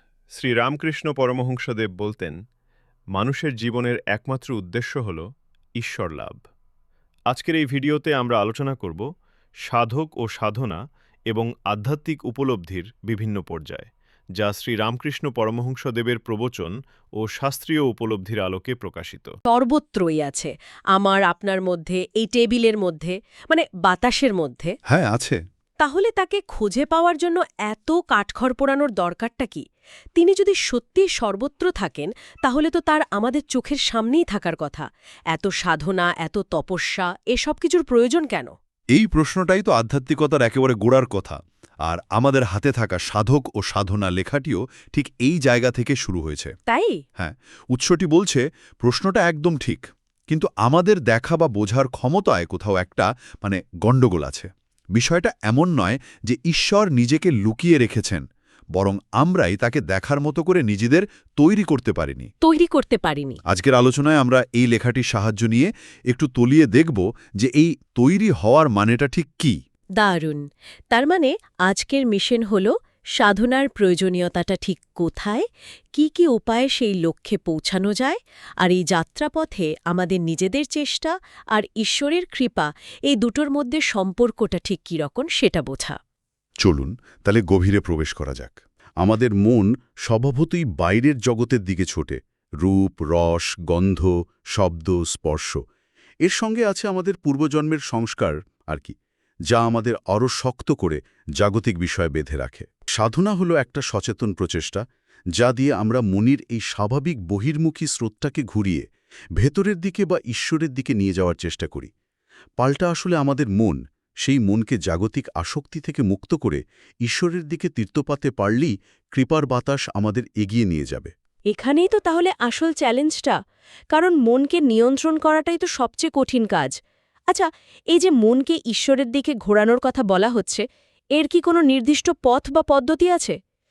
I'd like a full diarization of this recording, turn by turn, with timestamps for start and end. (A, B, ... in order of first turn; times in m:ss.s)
0:00.3-0:02.4 A
0:03.1-0:05.2 A
0:05.8-0:06.4 A
0:07.3-0:09.1 A
0:09.7-0:19.3 A
0:19.5-0:24.8 B
0:24.9-0:25.4 C
0:25.8-0:29.6 B
0:30.2-0:38.5 B
0:38.9-0:46.5 C
0:46.7-0:47.0 B
0:47.2-0:58.2 C
0:58.8-1:02.3 C
1:02.4-1:03.4 B
1:03.5-1:09.6 C
1:10.0-1:26.0 B
1:26.6-1:35.6 C
1:36.2-1:39.0 C
1:39.5-1:44.8 C
1:45.4-1:48.8 C
1:49.4-1:51.9 C
1:52.6-2:01.1 C
2:01.5-2:03.4 B
2:03.9-2:06.8 B
2:07.3-2:10.6 B
2:11.2-2:13.4 B